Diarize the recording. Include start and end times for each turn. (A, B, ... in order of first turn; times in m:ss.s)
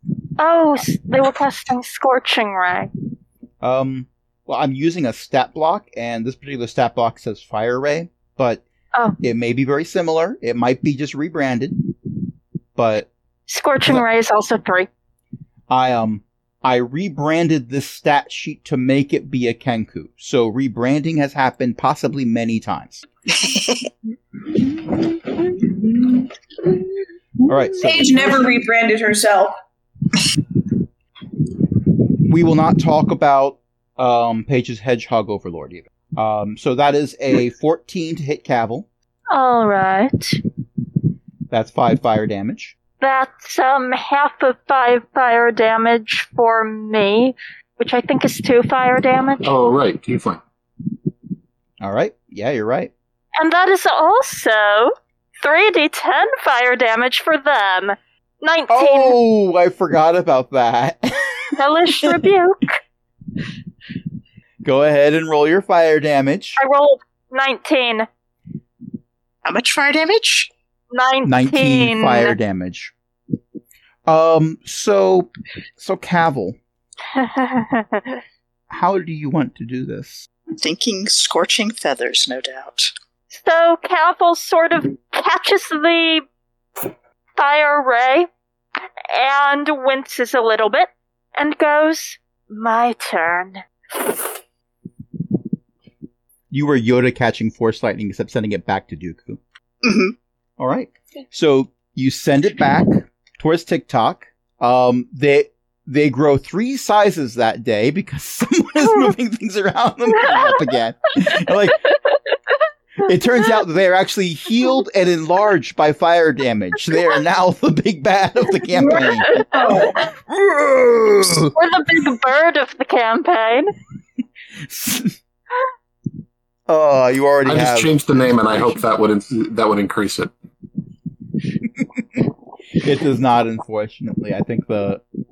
0:00.4-0:02.9 A
0:03.6-0:08.6 B
0:09.2-0:11.9 B
0:12.7-0:13.1 B
0:13.5-0:14.9 A
0:15.7-0:23.0 B
0:23.3-0:23.9 C
0:27.4-0:28.6 B
0:27.8-0:29.5 D
0:32.2-0:38.9 B
0:39.3-0:40.4 A
0:41.5-0:42.7 B
0:43.0-0:49.5 A
0:49.4-0:50.4 E
0:51.8-0:52.9 B
0:53.4-0:59.2 A
0:58.7-1:02.2 B
1:01.5-1:02.8 A
1:04.6-1:06.6 B
1:06.6-1:08.1 A
1:09.4-1:10.5 C
1:10.9-1:12.4 A
1:11.2-1:12.9 B
1:14.0-1:16.6 B
1:17.2-1:18.2 A
1:18.7-1:20.3 B
1:20.6-1:22.9 C
1:23.3-1:26.2 A
1:27.4-1:28.3 A
1:29.1-1:33.6 A
1:36.5-1:39.4 B
1:39.8-1:40.1 C
1:40.6-1:51.8 B
1:53.0-2:01.5 B
1:58.8-2:00.1 D
2:01.5-2:03.7 A
2:04.6-2:05.2 B
2:06.7-2:08.8 B
2:07.4-2:10.3 E
2:11.6-2:15.0 B